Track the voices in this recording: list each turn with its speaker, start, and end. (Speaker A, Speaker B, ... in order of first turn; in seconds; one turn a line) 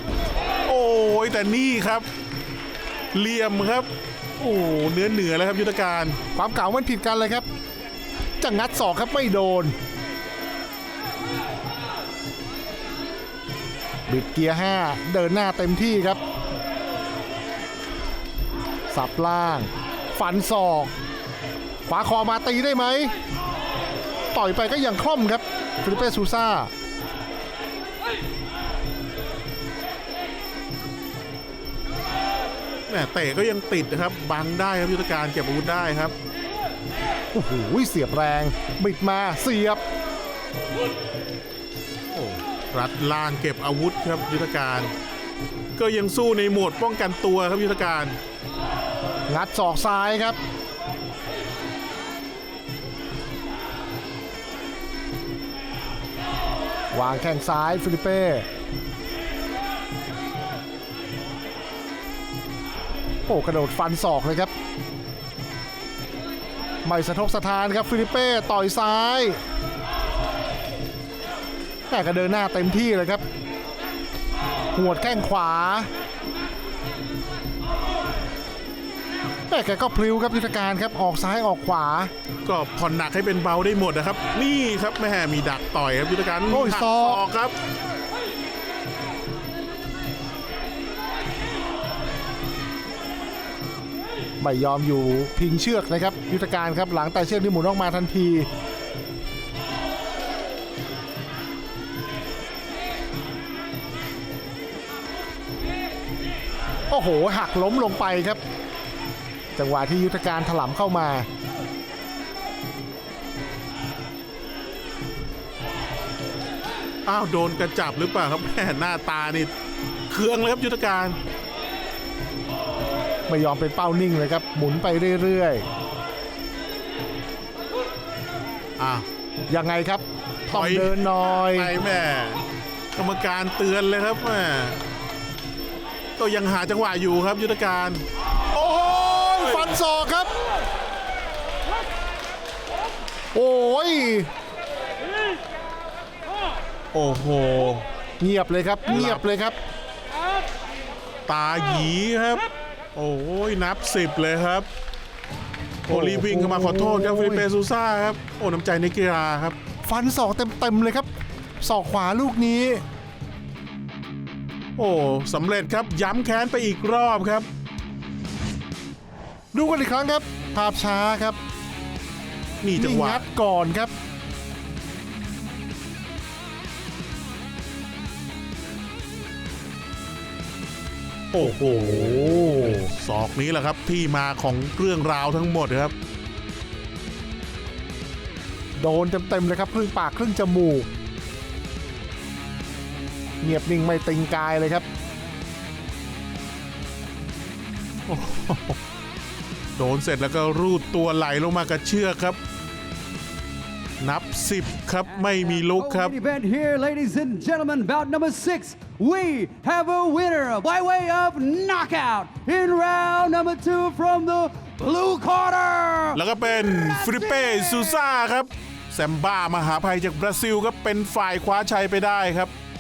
Speaker A: 0.7-2.1
Speaker A: 3.1-6.2
Speaker B: 6.3-7.4
Speaker B: 8.4-9.7
Speaker B: 14.1-16.2
Speaker B: 18.9-20.9
Speaker B: 21.9-23.1
Speaker B: 24.3-26.7
Speaker A: 32.9-36.1
Speaker B: 37.3-39.8
Speaker A: 42.1-44.9
Speaker A: 45.7-48.2
Speaker B: 49.3-50.4
Speaker B: 56.9-58.5
Speaker B: 63.3-64.5
Speaker B: 66.8-69.4
Speaker B: 71.9-73.2
Speaker B: 74.7-75.9
Speaker B: 79.5-82.1
Speaker A: 82.4-87.5
Speaker B: 86.5-87.2
Speaker B: 94.4-98.5
Speaker B: 106.9-108.4
Speaker B: 109.5-111.3
Speaker A: 117.0-119.5
Speaker A: 120.1-121.2
Speaker B: 123.3-125.6
Speaker A: 128.8-129.1
Speaker B: 129.5-131.7
Speaker A: 130.5-132.4
Speaker A: 132.9-134.8
Speaker A: 136.2-138.0
Speaker B: 138.5-140.3
Speaker B: 143.3-144.3
Speaker A: 146.9-147.8
Speaker B: 148.2-149.6
Speaker A: 148.9-149.2
Speaker A: 151.3-152.4
Speaker A: 152.9-154.7
Speaker A: 155.8-159.6
Speaker B: 155.9-157.5
Speaker B: 159.8-161.1
Speaker B: 161.6-162.8
Speaker A: 164.8-167.5
Speaker B: 169.5-171.4
Speaker A: 172.6-173.2
Speaker B: 172.8-173.9
Speaker A: 181.3-185.9
Speaker B: 181.4-182.9
Speaker B: 188.8-190.9
Speaker B: 193.4-194.8
Speaker A: 198.1-198.8
Speaker A: 199.8-202.4
Speaker A: 204.0-206.1
Speaker C: 205.0-218.1
Speaker A: 216.1-222.5